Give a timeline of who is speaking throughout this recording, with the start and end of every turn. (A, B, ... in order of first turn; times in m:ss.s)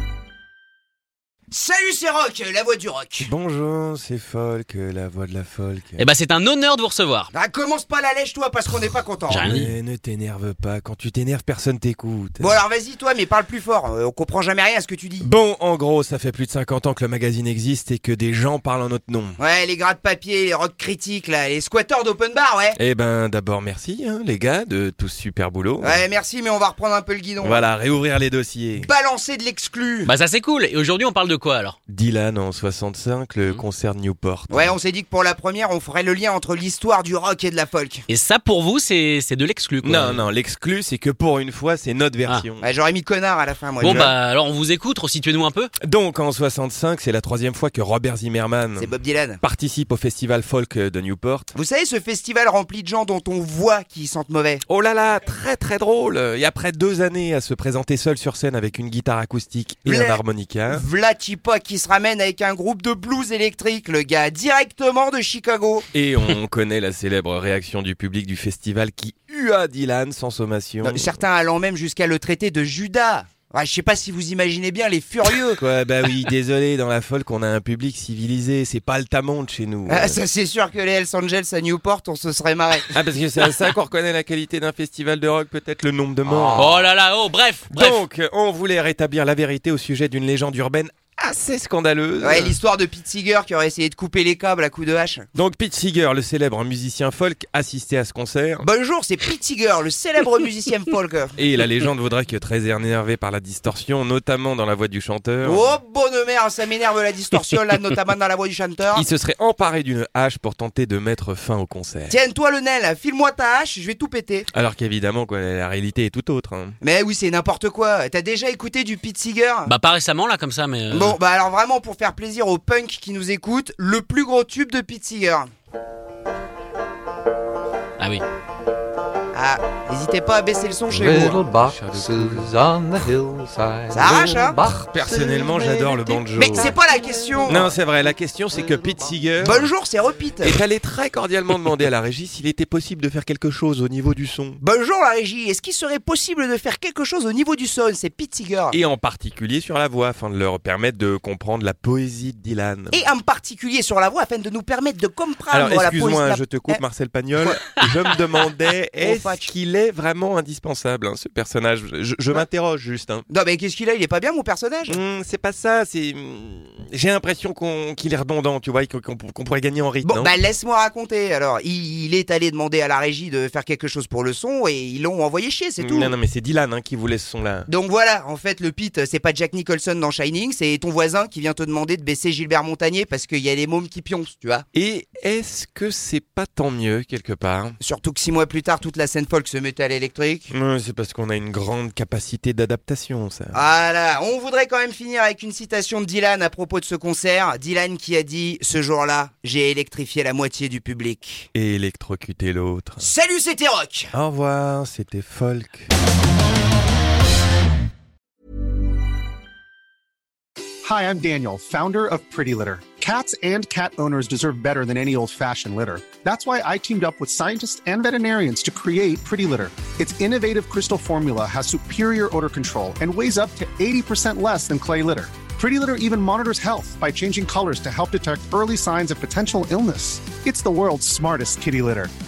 0:01.5-0:03.3 A
0:03.2-0:06.1 B
0:06.0-0:07.3 C
0:07.3-0:09.6 A
0:09.3-0:09.7 C
0:09.4-0:12.6 B
0:12.4-0:15.3 A
0:15.2-0:19.4 B
0:19.4-0:22.8 A
0:22.8-0:26.0 B
0:25.8-0:27.6 A
0:27.4-0:28.9 B
0:28.8-0:30.1 A
0:30.1-0:31.8 C
0:31.9-0:34.8 B
0:34.5-0:38.1 A
0:38.1-0:40.3 C
0:39.8-0:42.7 B
0:42.6-0:44.1 A
0:43.8-0:44.1 B
0:43.8-0:45.7 C
0:45.8-0:51.5 B
0:48.8-0:49.4 A
0:51.5-0:54.6 A
0:54.7-1:00.8 B
0:59.9-1:05.9 A
1:05.9-1:11.2 B
1:10.8-1:15.6 A
1:15.6-1:20.2 B
1:19.9-1:22.9 A
1:22.9-1:26.8 B
1:26.6-1:28.0 C
1:27.7-1:32.6 B
1:32.2-1:35.3 A
1:35.4-1:38.7 B
1:38.6-1:41.4 A
1:41.4-1:45.8 B
1:45.4-1:49.0 A
1:48.9-1:52.2 B
1:52.1-1:54.5 A
1:54.5-1:56.8 B
1:56.8-1:59.7 A
1:59.7-2:01.2 C
2:00.9-2:05.5 A
2:08.0-2:08.2 C
2:09.3-2:11.4 A
2:10.9-2:16.7 D
2:13.9-2:14.7 A
2:14.8-2:16.8 B
2:16.4-2:17.7 A
2:17.5-2:19.7 B
2:19.4-2:20.6 A
2:20.4-2:24.6 B
2:24.6-2:28.8 A
2:28.7-2:33.0 B
2:32.9-2:36.8 A
2:35.5-2:43.2 B
2:39.0-2:39.5 A
2:43.3-2:45.0 A
2:44.9-2:50.3 B
2:50.0-2:56.1 A
2:55.8-2:57.7 B
2:57.7-3:04.7 A
3:04.7-3:07.8 B
3:07.8-3:10.5 A
3:10.5-3:13.6 B
3:13.5-3:21.5 A
3:21.5-3:23.1 B
3:23.0-3:24.1 A
3:24.1-3:25.9 B
3:30.8-3:52.1 E